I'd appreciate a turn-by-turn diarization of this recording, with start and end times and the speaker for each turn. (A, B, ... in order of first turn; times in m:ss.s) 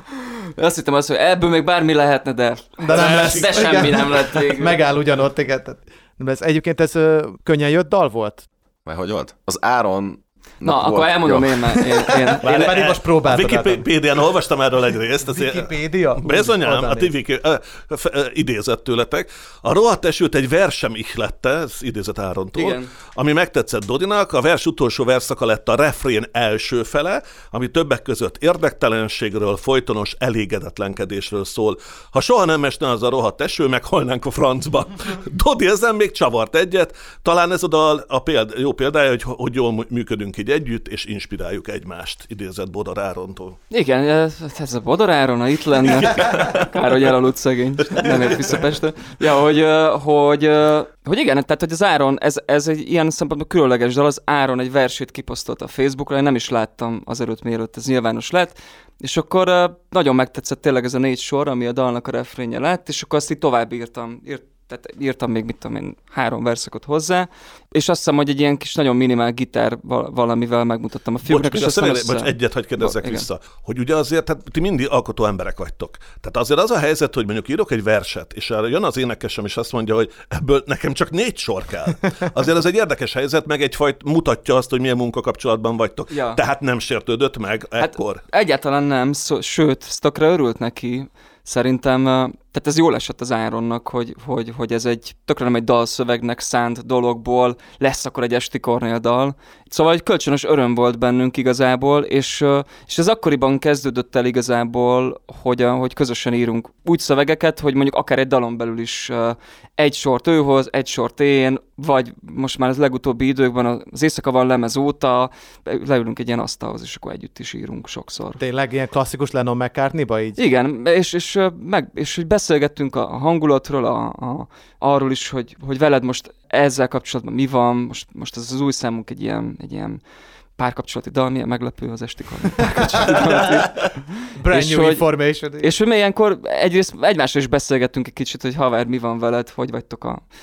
0:00.6-0:04.8 A
0:02.8-0:08.4 B
0:03.0-0:03.8 C
0:08.8-0:11.8 D
0:10.6-0:12.7 A
0:12.4-0:13.9 B
0:12.4-0:43.6 C
0:15.3-0:17.1 B
0:22.6-0:22.9 A
0:43.7-1:13.3 A
1:11.3-1:28.2 C
1:26.1-1:26.4 A
1:27.8-1:58.4 A
1:58.4-2:00.4 B
2:00.4-2:10.0 A
2:10.6-2:15.0 A
2:14.4-2:15.7 B
2:15.6-2:20.2 A